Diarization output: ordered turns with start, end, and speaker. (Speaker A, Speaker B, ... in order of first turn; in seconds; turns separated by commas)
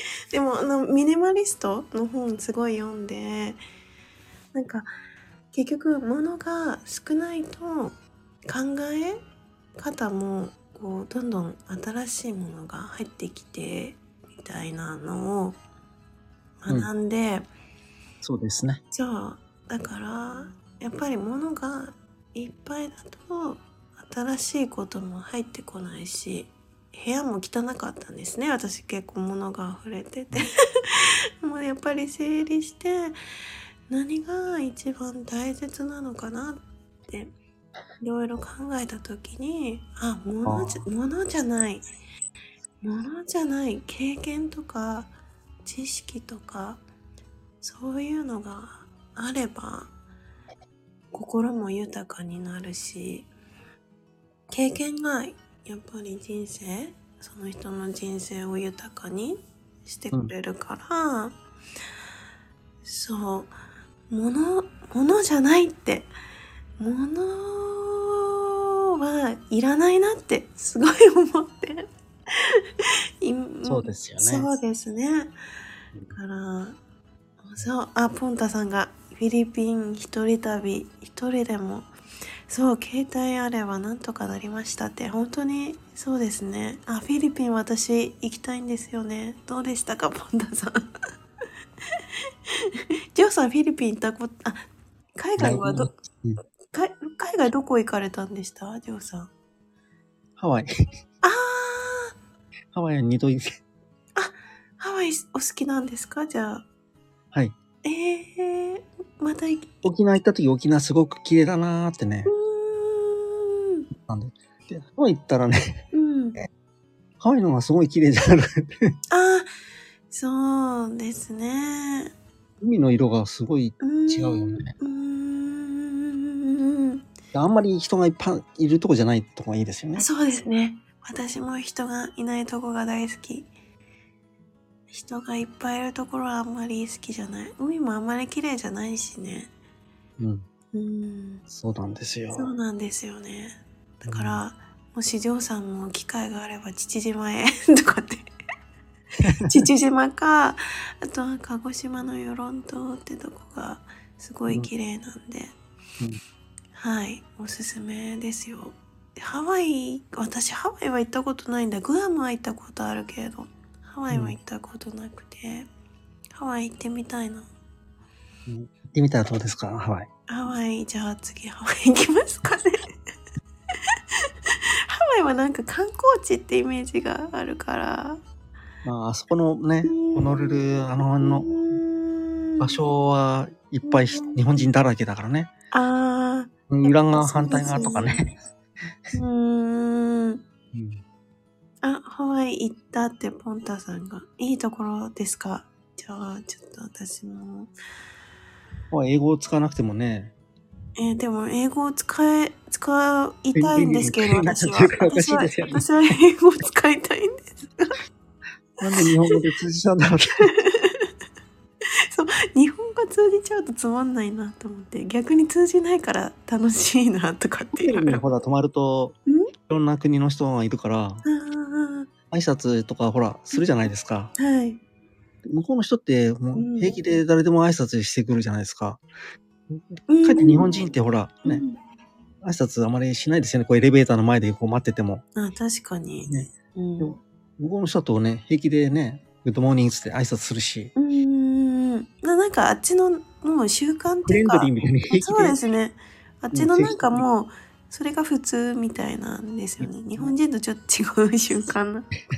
Speaker A: 0.3-3.6, Speaker A: 4.5-4.9, Speaker A: 5.5-9.2, Speaker A: 9.8-15.6, Speaker A: 16.6-17.5, Speaker B: 18.2-18.8, Speaker A: 18.9-33.2, Speaker A: 33.9-37.3, Speaker A: 38.0-41.9, Speaker B: 40.5-40.9, Speaker A: 42.8-45.1, Speaker A: 45.6-46.8, Speaker A: 47.6-49.9, Speaker A: 51.1-53.3, Speaker A: 54.5-61.4, Speaker A: 62.9-63.5, Speaker A: 64.1-66.1, Speaker A: 66.8-68.4, Speaker A: 69.0-75.3, Speaker B: 73.7-74.5, Speaker A: 76.1-76.8, Speaker A: 77.4-81.9, Speaker A: 82.5-90.8, Speaker A: 92.6-94.6, Speaker A: 95.2-95.9, Speaker B: 95.4-96.4, Speaker A: 96.7-99.3, Speaker B: 100.4-100.7, Speaker A: 101.2-102.1, Speaker B: 102.7-103.6, Speaker A: 104.2-106.7, Speaker A: 107.8-109.7, Speaker B: 109.8-112.3, Speaker A: 112.3-113.9, Speaker B: 114.0-115.8, Speaker A: 115.9-116.4, Speaker B: 117.2-118.9, Speaker A: 119.1-119.5, Speaker A: 120.1-122.1, Speaker B: 122.6-124.7, Speaker A: 123.8-127.0, Speaker B: 127.3-130.1, Speaker A: 130.0-133.5, Speaker A: 134.9-139.5, Speaker B: 140.2-140.4, Speaker A: 140.7-141.4, Speaker B: 141.5-142.5, Speaker A: 142.3-148.3, Speaker B: 144.1-144.4, Speaker B: 149.2-149.7, Speaker A: 149.4-155.5, Speaker A: 156.8-165.7, Speaker B: 164.1-164.4, Speaker A: 166.3-167.5, Speaker B: 168.5-170.1, Speaker A: 170.3-172.9, Speaker A: 174.9-178.2, Speaker B: 178.8-181.5, Speaker A: 179.8-182.8, Speaker B: 182.6-185.5, Speaker A: 183.8-184.6, Speaker A: 185.7-188.2, Speaker B: 186.7-188.3, Speaker A: 189.1-190.4, Speaker B: 190.7-191.0, Speaker A: 191.8-197.7, Speaker B: 198.9-200.3, Speaker A: 201.0-208.0, Speaker B: 203.6-205.9, Speaker B: 208.8-210.5, Speaker A: 208.9-209.4, Speaker A: 210.4-211.1, Speaker A: 212.1-218.2, Speaker B: 217.8-219.2, Speaker B: 219.7-221.2, Speaker A: 221.2-222.1, Speaker B: 222.3-224.3, Speaker A: 224.4-224.8, Speaker B: 225.4-229.0, Speaker A: 226.6-227.0, Speaker B: 229.7-231.6, Speaker A: 230.1-230.8, Speaker A: 231.5-231.8, Speaker B: 232.4-235.2, Speaker A: 235.4-237.2, Speaker B: 236.3-240.9, Speaker A: 241.0-252.1, Speaker B: 244.3-245.6, Speaker B: 246.5-247.3, Speaker B: 249.8-250.3